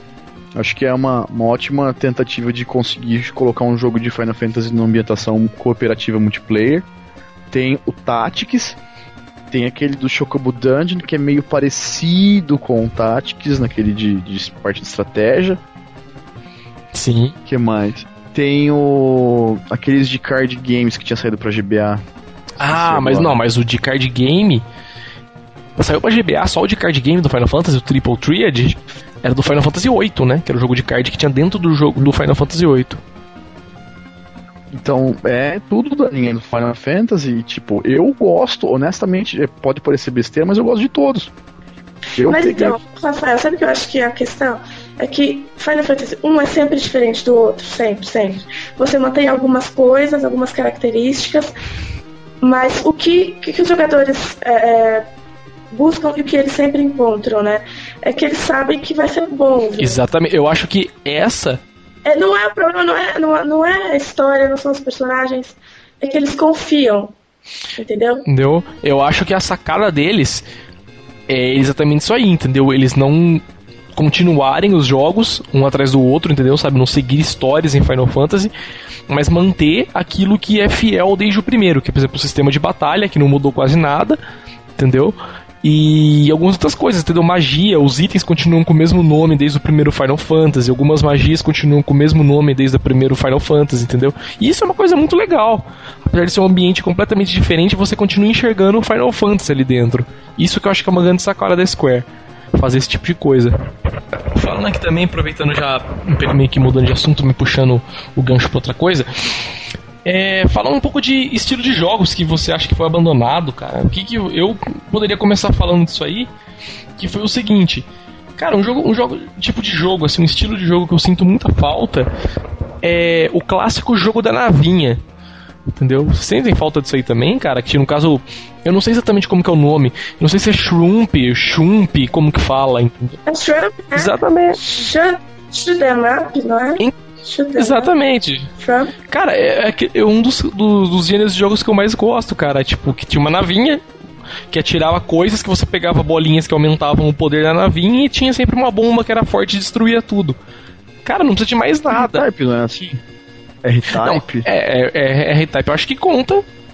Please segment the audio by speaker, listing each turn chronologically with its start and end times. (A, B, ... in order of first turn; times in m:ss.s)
0:00.5-0:06.8 A
0:07.5-0:08.8 A
0:09.5-0:15.6 A
0:16.9-0:17.3 B
0:17.4-0:22.0 A
0:22.6-0:23.4 A
0:22.6-0:24.6 B
0:25.8-0:33.0 B
0:34.7-0:41.3 A
0:42.2-0:42.8 A
0:42.3-0:51.5 C
0:52.4-0:55.0 C
0:55.7-1:00.0 C
0:59.8-1:01.6 B
1:02.0-1:07.1 C
1:07.8-1:08.2 C
1:08.3-1:10.4 B
1:11.3-1:13.4 B
1:14.0-1:18.5 B
1:19.1-1:24.2 B
1:24.8-1:43.5 B
1:44.3-1:49.3 B
1:50.0-1:56.3 B
1:57.0-1:57.8 B
1:58.4-2:02.1 B
2:02.8-2:05.0 B
2:05.7-2:13.2 B
2:13.2-2:17.9 C
2:13.9-2:14.6 B
2:17.6-2:18.5 B
2:18.6-2:18.9 C
2:19.1-2:23.8 B
2:24.5-2:30.4 B
2:31.0-2:32.2 B
2:31.9-2:33.0 A
2:33.6-2:34.4 A
2:33.9-2:36.4 B